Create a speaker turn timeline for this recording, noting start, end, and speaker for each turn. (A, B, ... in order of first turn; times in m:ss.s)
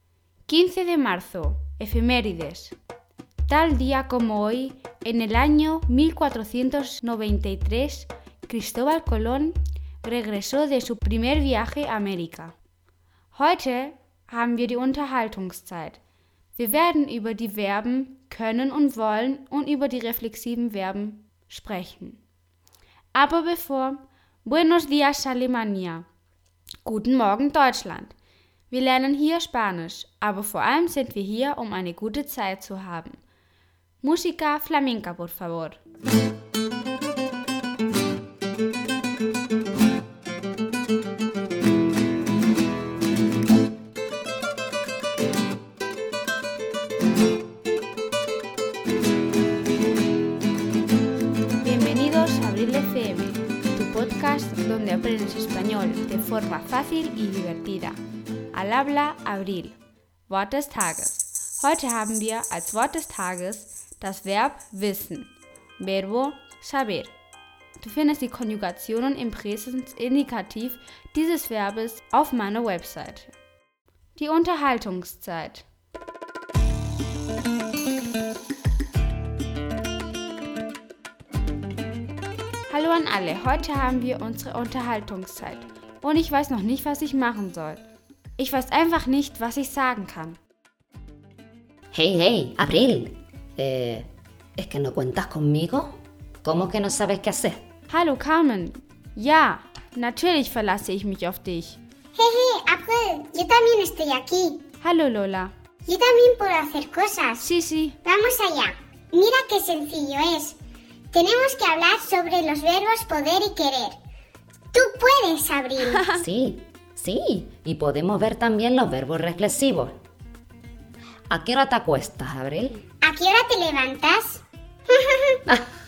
0:00.5-0:02.8 A
0:03.5-0:12.6 A
0:13.3-0:16.0 A
0:16.6-0:22.2 A
0:23.2-0:26.1 A
0:26.8-0:28.2 A
0:28.7-0:33.2 A
0:34.0-0:35.8 A
0:51.6-0:58.0 A
0:58.5-0:59.8 A
1:00.3-1:07.1 A
1:07.8-1:13.3 A
1:14.2-1:15.6 A
1:22.7-1:27.8 A
1:28.4-1:30.4 A
1:31.9-1:37.6 B
1:37.9-1:41.8 A
1:42.2-1:44.6 C
1:44.8-1:45.5 A
1:45.9-1:47.4 C
1:47.4-1:48.0 A
1:48.0-1:50.6 C
1:51.1-1:54.0 C
1:54.7-1:56.1 C
1:56.1-2:00.0 B
2:01.3-2:02.8 B
2:03.0-2:05.4 C